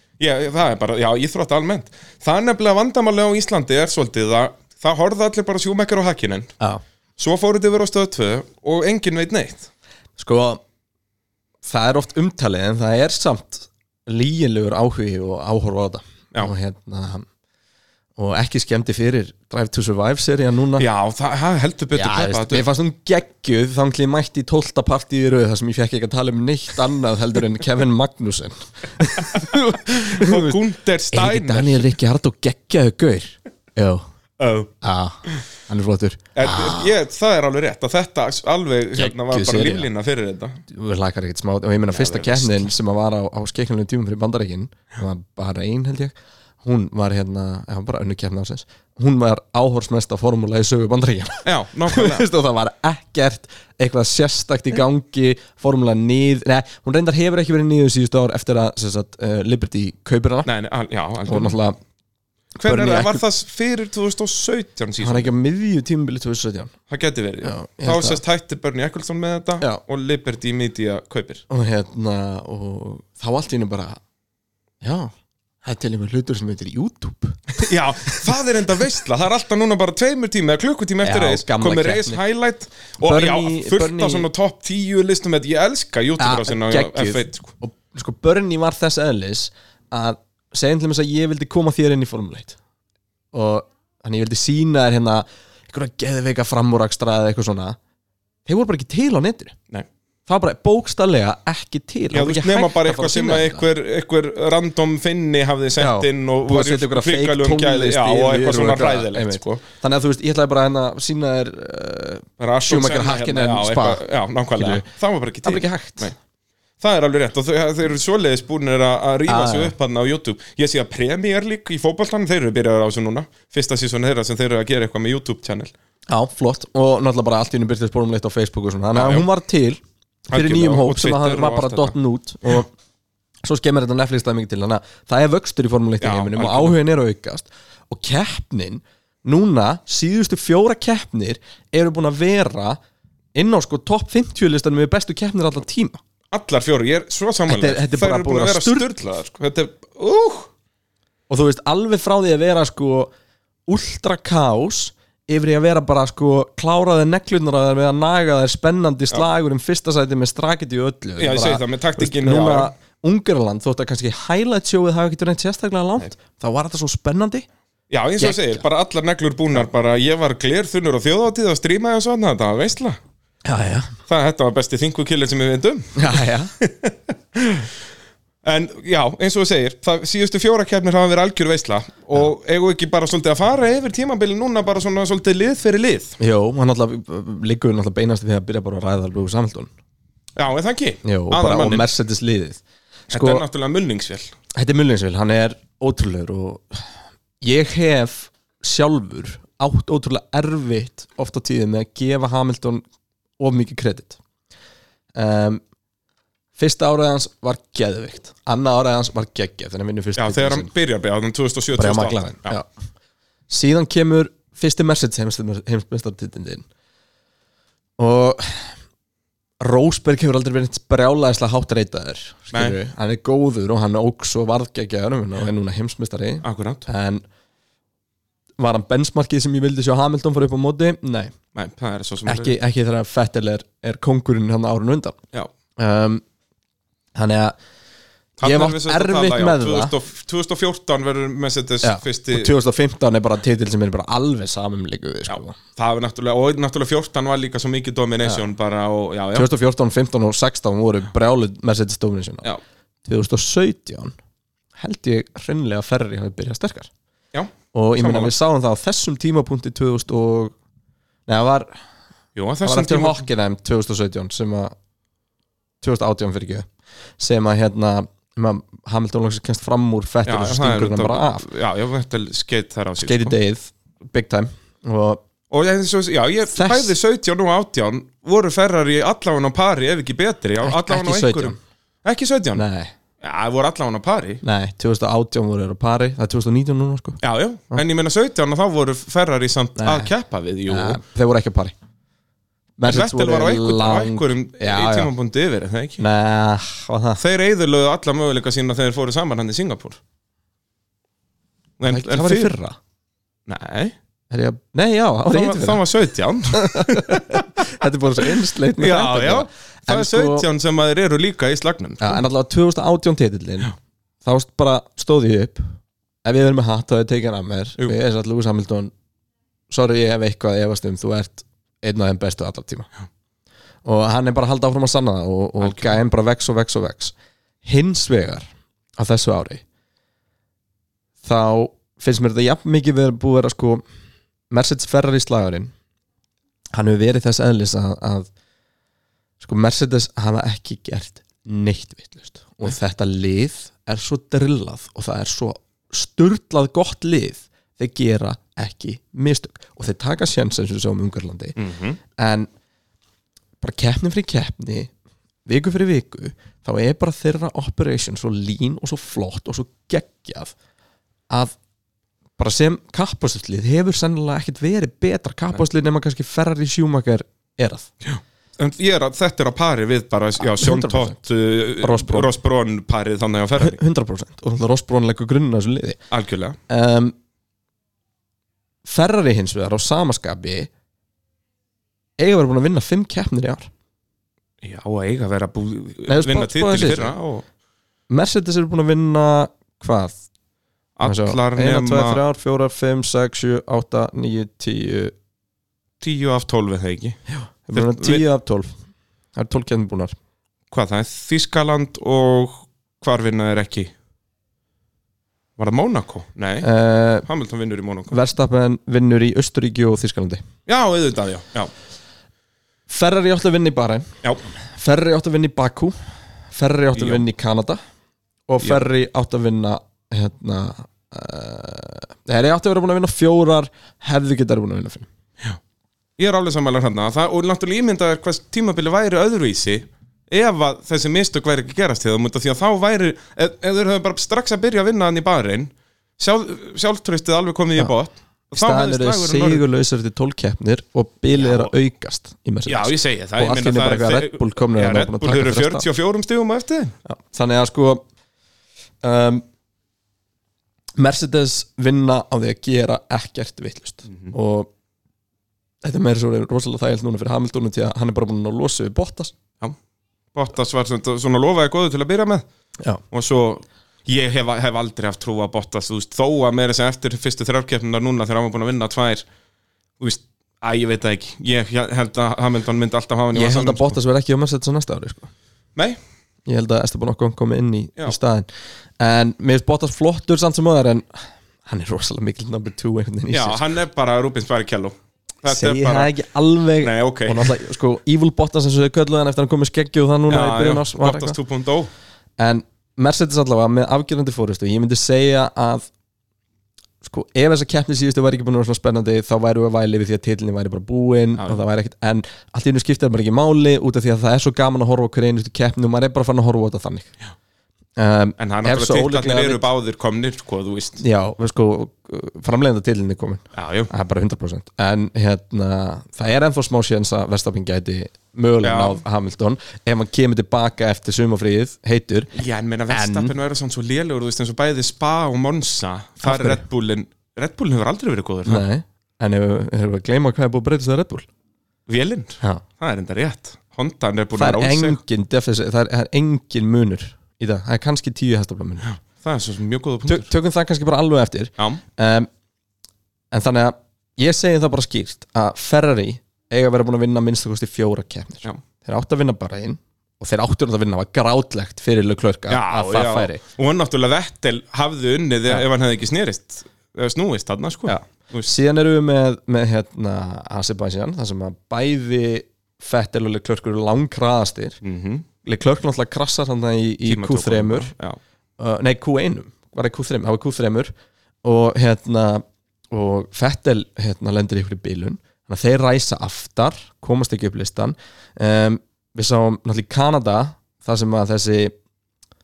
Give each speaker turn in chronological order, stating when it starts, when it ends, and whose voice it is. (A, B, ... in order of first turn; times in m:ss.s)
0:00.2-0:06.5 A
0:07.2-0:09.7 A
0:10.2-0:10.6 B
0:11.6-0:17.3 B
0:18.2-0:20.9 B
0:20.8-0:22.7 A
0:21.9-0:30.6 B
0:29.3-0:31.9 A
0:31.1-0:34.0 B
0:34.4-0:34.7 A
0:34.8-0:36.9 B
0:36.4-0:40.6 A
0:39.0-0:39.9 B
0:40.7-1:00.5 B
0:41.9-0:42.7 A
0:51.4-0:52.2 A
1:00.4-1:01.6 A
1:01.3-1:01.8 B
1:02.6-1:03.2 B
1:02.6-1:05.3 A
1:05.0-1:06.7 B
1:06.9-1:11.4 A
1:07.4-1:08.2 B
1:11.5-1:14.0 B
1:14.8-1:15.1 B
1:15.6-1:18.3 B
1:17.6-1:27.5 A
1:21.0-1:22.2 B
1:23.0-1:24.3 B
1:26.2-1:32.6 B
1:33.3-1:37.8 B
1:38.5-1:39.6 B
1:40.3-1:43.6 B
1:42.1-1:49.6 A
1:45.8-1:54.0 B
1:52.4-1:56.1 A
1:54.5-1:54.9 B
1:55.4-1:56.1 B
1:56.8-2:05.7 A
1:59.3-1:59.7 B
2:06.1-2:09.8 B
2:08.9-2:09.3 A
2:10.3-2:12.0 A
2:10.3-2:12.7 B
2:13.4-2:22.8 B
2:16.0-2:16.8 A
2:23.4-2:26.0 B
2:26.3-2:30.5 A
2:27.5-2:28.9 B
2:31.3-2:33.1 B
2:33.7-2:47.5 B
2:41.2-2:42.7 A
2:47.9-2:53.0 A
2:48.2-2:48.6 B
2:53.5-2:54.0 B
2:54.1-2:57.7 A
2:56.0-2:56.5 B
2:58.4-3:06.2 A
3:06.2-3:09.7 B
3:10.4-3:11.9 A
3:11.0-3:13.4 B
3:13.1-3:14.3 A
3:14.6-3:16.9 B
3:17.4-3:22.8 B
3:23.4-3:24.2 B
3:25.2-3:25.6 B
3:26.6-3:30.7 B
3:30.2-3:32.6 A
3:31.8-3:32.7 B
3:33.5-3:36.6 B
3:38.0-3:38.7 B
3:39.6-3:47.2 B
3:42.5-3:42.8 A
3:46.4-3:46.8 A
3:48.6-3:51.3 B
3:51.6-3:52.6 A
3:52.2-3:55.2 B
3:55.8-3:56.2 B
3:57.2-3:57.6 B
3:58.4-4:02.5 A
3:58.4-3:59.9 B
4:01.8-4:05.6 B
4:05.3-4:09.5 A
4:09.3-4:12.5 B
4:13.0-4:14.2 B
4:14.8-4:16.9 B
4:17.3-4:18.3 A
4:17.7-4:20.5 B
4:21.3-4:21.7 B
4:22.4-4:23.2 A
4:22.6-4:24.8 B
4:25.8-4:26.7 B
4:27.2-4:31.5 B
4:30.2-4:33.4 A
4:33.0-4:35.2 B
4:35.5-4:42.6 A
4:36.5-4:36.9 B
4:40.6-4:41.6 B
4:42.6-4:42.9 B
4:43.2-4:44.4 A
4:44.4-4:47.8 B
4:47.2-4:51.0 A
4:49.8-4:50.1 B
4:50.7-4:51.7 B
4:52.8-4:55.1 B
4:52.9-4:56.0 A
4:56.0-4:57.2 B
4:57.2-5:00.0 A
5:01.8-5:02.5 A
5:01.9-5:02.8 B
5:03.5-5:04.0 A
5:04.3-5:05.8 B
5:05.3-5:07.4 A
5:06.5-5:10.5 B
5:08.8-5:12.2 A
5:12.0-5:18.9 B
5:19.7-5:22.9 B
5:23.8-5:29.6 B
5:25.6-5:25.9 A
5:31.2-5:33.8 B
5:34.5-5:35.7 B
5:36.7-5:38.3 B
5:39.4-5:51.6 B
5:51.6-5:52.0 A
5:52.2-5:52.5 B
5:53.6-5:54.9 B
5:55.5-6:00.6 B
6:01.3-6:01.6 B
6:02.4-6:07.9 B
6:08.0-6:13.8 A
6:10.4-6:11.2 B
6:11.8-6:12.3 B
6:13.6-6:16.0 B
6:16.1-6:16.6 A
6:16.7-6:17.2 B
6:18.8-6:20.7 B
6:22.2-6:23.7 B
6:24.6-6:27.5 A
6:26.1-6:27.2 B
6:28.1-6:30.2 B
6:31.0-6:32.2 A
6:31.0-6:35.1 B
6:36.0-6:37.2 A
6:37.3-6:38.7 B
6:37.7-6:38.2 A
6:39.4-6:40.2 B
6:40.7-6:43.9 A
6:45.6-6:46.7 A
6:46.6-6:47.3 B
6:47.2-6:48.2 A
6:48.1-6:50.4 B
6:50.7-6:51.7 A
6:52.9-6:54.1 B
6:54.8-6:56.0 B
6:56.5-6:57.8 B
6:57.0-6:57.2 A
6:58.5-7:05.1 B
7:06.2-7:19.6 A
7:18.5-7:25.9 B
7:21.4-7:21.7 A
7:22.7-7:27.0 A
7:27.1-7:28.0 B
7:29.0-7:29.4 B
7:31.0-7:34.7 B
7:35.8-7:39.3 B
7:40.3-7:42.4 A
7:43.1-7:49.3 A
7:50.0-7:54.0 A
7:53.3-7:55.3 B
7:56.5-7:58.5 B
7:59.0-8:03.6 B
8:03.3-8:06.1 A
8:05.5-8:11.4 B
8:06.8-8:07.6 A
8:10.3-8:11.9 A
8:12.4-8:15.9 B
8:17.0-8:27.1 B
8:28.0-8:29.7 B
8:28.4-8:31.0 A
8:31.0-8:42.3 B
8:33.6-8:33.9 A
8:38.6-8:39.0 A
8:42.4-8:48.6 A
8:42.9-8:43.3 B
8:46.2-8:46.6 B
8:48.4-8:51.3 B
8:51.9-8:55.0 A
8:54.4-8:59.0 B
8:58.8-9:00.3 A
9:00.1-9:02.3 B
9:03.3-9:13.4 B
9:12.5-9:18.5 A
9:17.9-9:24.8 B
9:24.8-9:25.3 A
9:25.4-9:27.9 B
9:27.1-9:28.2 A
9:28.6-9:30.9 B
9:31.4-9:41.7 B